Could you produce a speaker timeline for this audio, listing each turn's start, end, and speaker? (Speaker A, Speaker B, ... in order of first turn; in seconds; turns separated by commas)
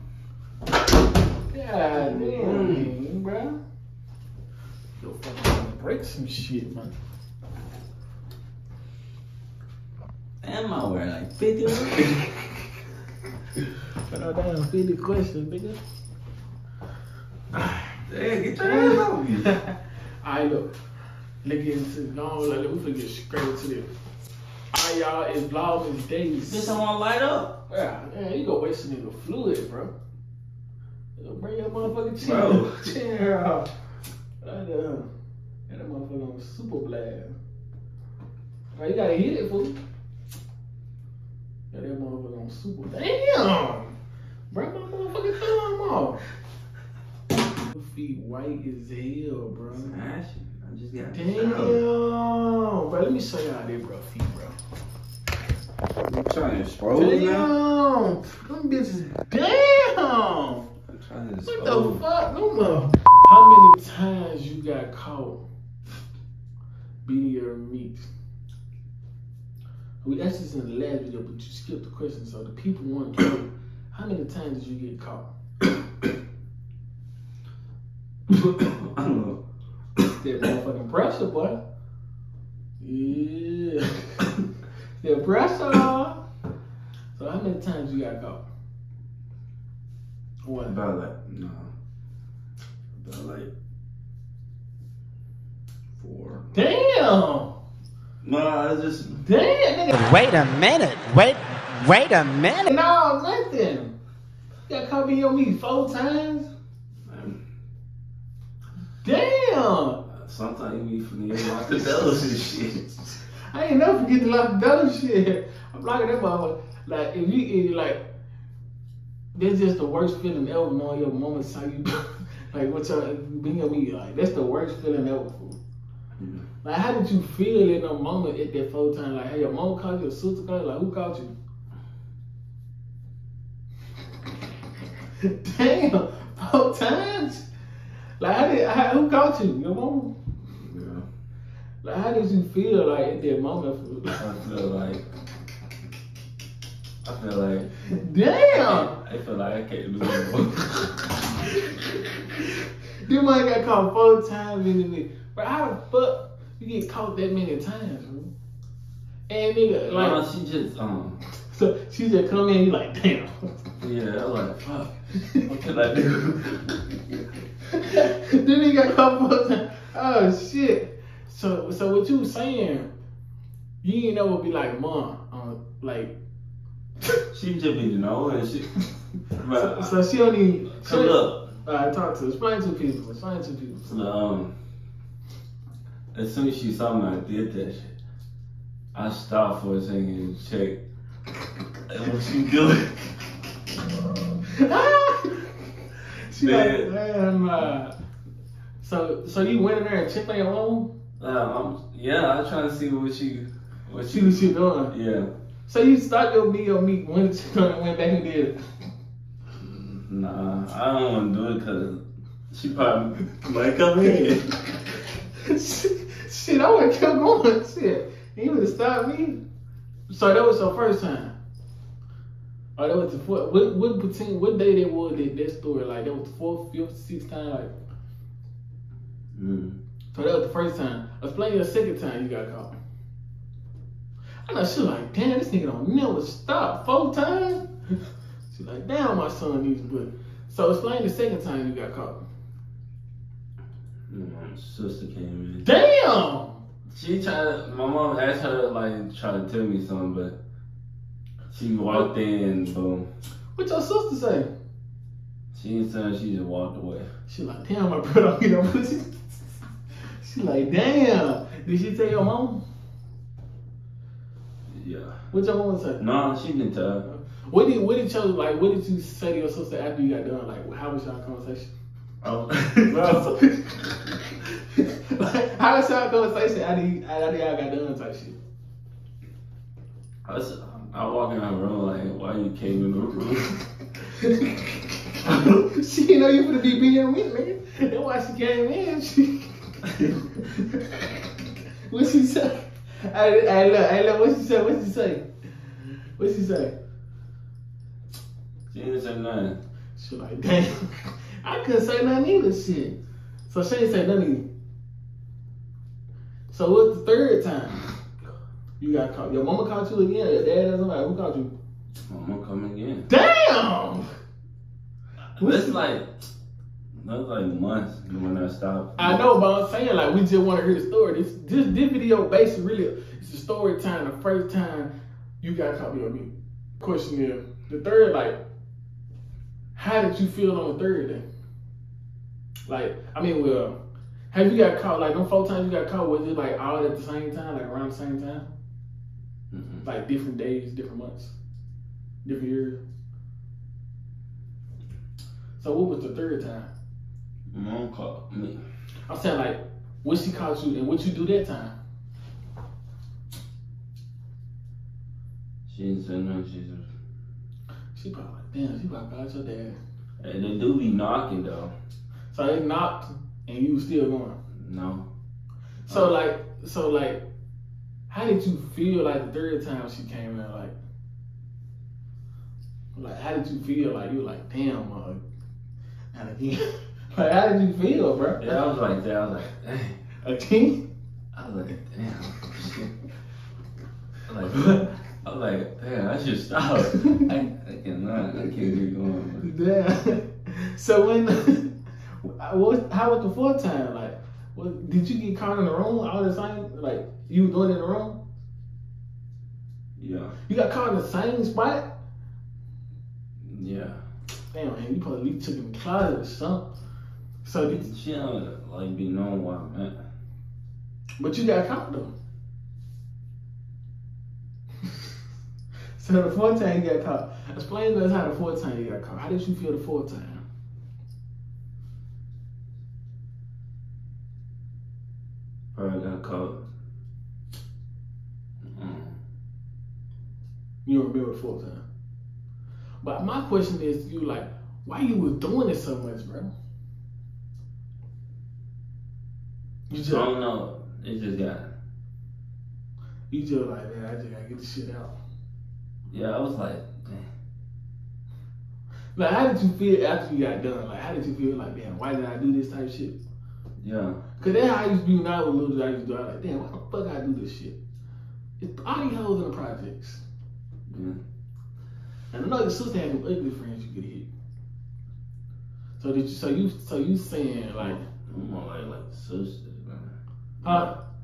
Speaker A: 1.5-3.6, Speaker B: 1.9-2.9, Speaker A: 5.0-7.0, Speaker B: 10.4-12.3, Speaker A: 14.1-15.8, Speaker A: 17.6-17.9, Speaker B: 18.1-19.5, Speaker A: 18.6-20.7, Speaker A: 21.4-23.9, Speaker A: 24.7-26.8, Speaker B: 26.5-27.6, Speaker A: 27.7-29.9, Speaker A: 31.2-33.7, Speaker B: 32.2-32.9, Speaker A: 34.4-35.1, Speaker A: 35.7-37.3, Speaker A: 38.7-39.8, Speaker A: 41.7-44.0, Speaker A: 44.5-46.2, Speaker A: 47.7-50.0, Speaker B: 49.7-51.8, Speaker A: 51.1-54.6, Speaker B: 56.0-57.5, Speaker A: 56.9-60.7, Speaker B: 60.9-62.1, Speaker A: 61.5-65.5, Speaker A: 67.0-68.1, Speaker A: 70.0-75.3, Speaker B: 78.3-79.4, Speaker A: 80.1-81.6, Speaker A: 82.8-84.3, Speaker A: 85.0-86.2, Speaker A: 87.1-88.4, Speaker A: 90.4-90.8, Speaker B: 90.7-91.7, Speaker B: 93.0-93.5, Speaker B: 96.0-96.5, Speaker A: 96.5-97.6, Speaker B: 98.2-99.2, Speaker A: 99.2-100.2, Speaker C: 99.9-102.7, Speaker A: 102.6-103.9, Speaker A: 104.7-106.5, Speaker B: 107.1-107.4, Speaker A: 109.0-110.0, Speaker B: 110.1-112.9, Speaker A: 113.5-118.0, Speaker A: 119.3-121.9, Speaker A: 122.5-125.6, Speaker B: 126.2-126.5, Speaker A: 126.6-131.3, Speaker A: 135.2-137.5, Speaker A: 138.2-140.1, Speaker B: 140.5-141.1, Speaker A: 141.8-144.2, Speaker B: 144.2-145.0, Speaker B: 147.0-147.7, Speaker A: 148.0-149.0, Speaker B: 148.5-151.1, Speaker A: 151.4-158.3, Speaker A: 159.3-160.2, Speaker B: 159.9-161.2, Speaker A: 161.5-163.3, Speaker B: 163.8-167.0, Speaker A: 167.7-172.9, Speaker A: 173.8-176.1, Speaker B: 177.3-178.8, Speaker B: 179.3-180.0, Speaker A: 179.5-184.0, Speaker B: 180.7-181.5, Speaker B: 183.9-184.5, Speaker B: 186.1-188.0, Speaker B: 188.9-190.8, Speaker B: 191.9-193.1, Speaker A: 194.5-197.9, Speaker B: 196.4-196.9, Speaker A: 198.8-200.9, Speaker B: 201.2-205.3, Speaker A: 204.1-204.9, Speaker A: 205.7-208.6, Speaker B: 209.6-214.7, Speaker A: 215.4-219.4, Speaker A: 220.1-221.3, Speaker A: 222.8-227.7, Speaker B: 229.3-229.8, Speaker A: 230.1-232.7, Speaker A: 234.5-237.7, Speaker A: 238.5-242.2, Speaker B: 244.1-245.7, Speaker A: 245.6-246.6, Speaker B: 246.9-250.4, Speaker B: 251.5-253.1, Speaker A: 253.6-254.5, Speaker B: 255.5-257.1, Speaker A: 257.3-259.3, Speaker A: 260.2-262.6, Speaker B: 264.7-265.2, Speaker A: 265.3-266.1, Speaker B: 266.0-267.1, Speaker A: 267.0-271.7, Speaker B: 272.2-273.3, Speaker A: 272.9-274.1, Speaker A: 274.6-278.4, Speaker B: 280.2-283.6, Speaker A: 284.0-291.2, Speaker A: 291.9-296.8, Speaker B: 298.7-299.6, Speaker A: 300.0-304.5, Speaker A: 306.5-307.9, Speaker A: 308.8-311.5, Speaker B: 312.1-313.1, Speaker A: 313.1-314.1, Speaker B: 315.4-316.1, Speaker A: 315.4-315.8, Speaker B: 317.0-319.2, Speaker A: 319.0-328.4, Speaker A: 329.8-331.2, Speaker A: 332.7-333.8, Speaker A: 334.3-338.5, Speaker B: 339.5-339.9, Speaker A: 339.8-341.4, Speaker A: 342.2-342.8, Speaker A: 345.6-346.7, Speaker B: 347.5-348.6, Speaker A: 349.1-351.7, Speaker B: 355.7-356.9, Speaker A: 357.9-359.8, Speaker B: 360.2-361.7, Speaker A: 362.3-364.4, Speaker B: 364.6-365.1, Speaker B: 365.9-366.1, Speaker A: 365.9-367.2, Speaker A: 368.1-370.7, Speaker A: 372.9-375.2, Speaker A: 376.1-378.6, Speaker B: 378.4-380.0, Speaker A: 380.2-380.8, Speaker B: 381.3-382.9, Speaker B: 384.3-389.5, Speaker A: 389.4-398.2, Speaker B: 400.0-400.4, Speaker A: 400.5-401.9, Speaker B: 403.4-404.0, Speaker A: 404.5-406.7, Speaker A: 407.4-407.9, Speaker B: 407.6-410.0, Speaker A: 411.2-412.1, Speaker A: 416.0-420.4, Speaker B: 425.7-426.6, Speaker B: 428.7-429.2, Speaker A: 430.9-431.8, Speaker A: 433.0-436.5, Speaker A: 439.9-440.3, Speaker B: 440.1-441.7, Speaker A: 443.3-445.2, Speaker B: 446.1-447.3, Speaker A: 449.1-453.2, Speaker B: 453.8-454.2, Speaker A: 454.4-457.8, Speaker A: 458.6-460.2, Speaker B: 460.9-461.2, Speaker A: 462.3-464.3, Speaker A: 466.0-468.0, Speaker B: 467.8-471.0, Speaker A: 470.6-470.9